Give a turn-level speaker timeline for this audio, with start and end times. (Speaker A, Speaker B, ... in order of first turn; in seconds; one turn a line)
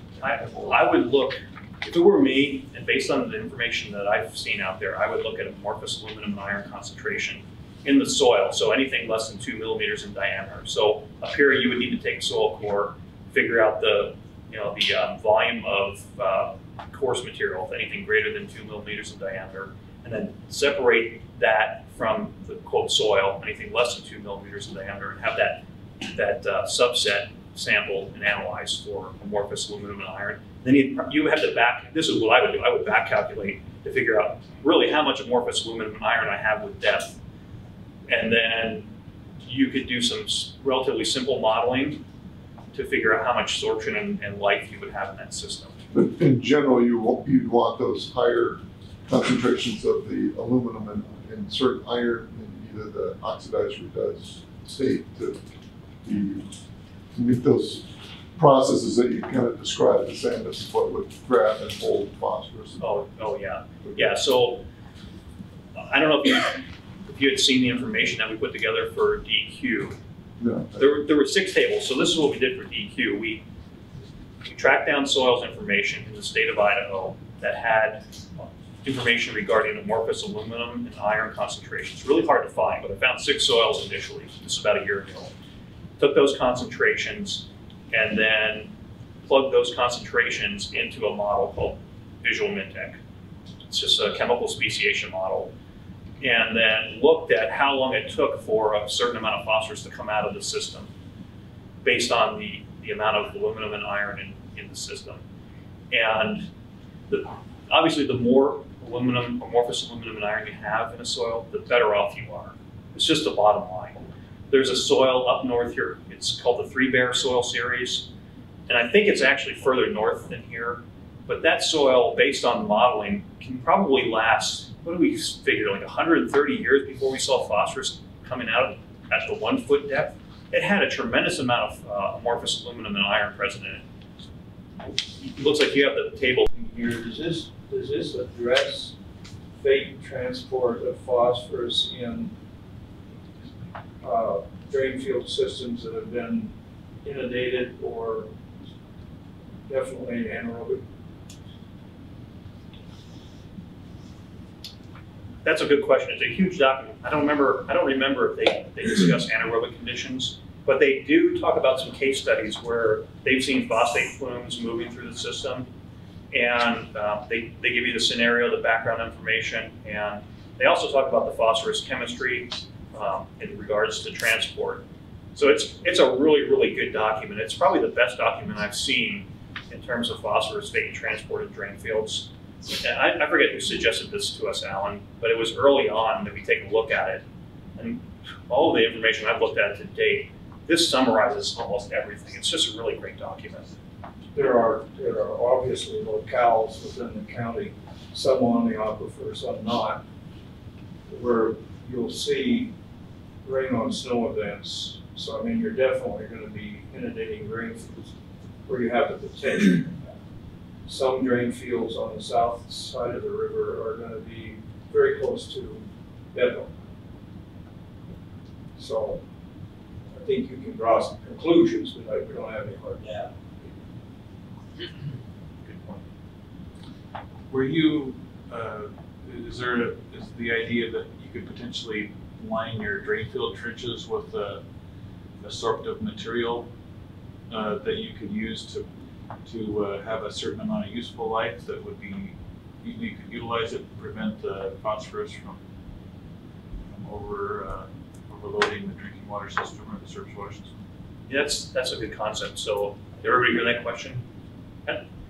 Speaker A: 0.2-37.2
Speaker A: 38.1-38.9
Speaker A: 39.4-42.0
Speaker A: 42.7-45.7
Speaker B: 45.9-55.4
Speaker B: 56.0-56.5
Speaker B: 57.1-62.8
Speaker A: 62.8-64.6
Speaker A: 65.7-70.0
Speaker B: 70.4-70.8
Speaker A: 70.8-73.4
Speaker A: 74.4-85.3
Speaker A: 86.0-88.7
Speaker A: 89.2-93.0
Speaker A: 93.7-95.5
Speaker A: 96.2-100.9
Speaker A: 101.8-105.2
Speaker A: 105.9-106.5
Speaker A: 107.1-118.1
Speaker A: 118.7-133.8
Speaker A: 135.2-136.5
Speaker C: 136.5-139.0
Speaker C: 139.6-142.3
Speaker C: 144.0-148.3
Speaker C: 149.7-150.8
Speaker A: 155.4-165.7
Speaker A: 166.3-187.2
Speaker A: 187.8-193.7
Speaker C: 194.3-200.0
Speaker C: 201.1-202.7
Speaker C: 203.4-208.1
Speaker C: 208.7-210.1
Speaker C: 210.8-216.8
Speaker C: 218.8-219.2
Speaker C: 220.1-223.8
Speaker D: 227.5-234.6
Speaker D: 235.4-236.7
Speaker D: 237.5-238.9
Speaker D: 239.4-245.6
Speaker D: 246.9-250.7
Speaker A: 251.3-254.2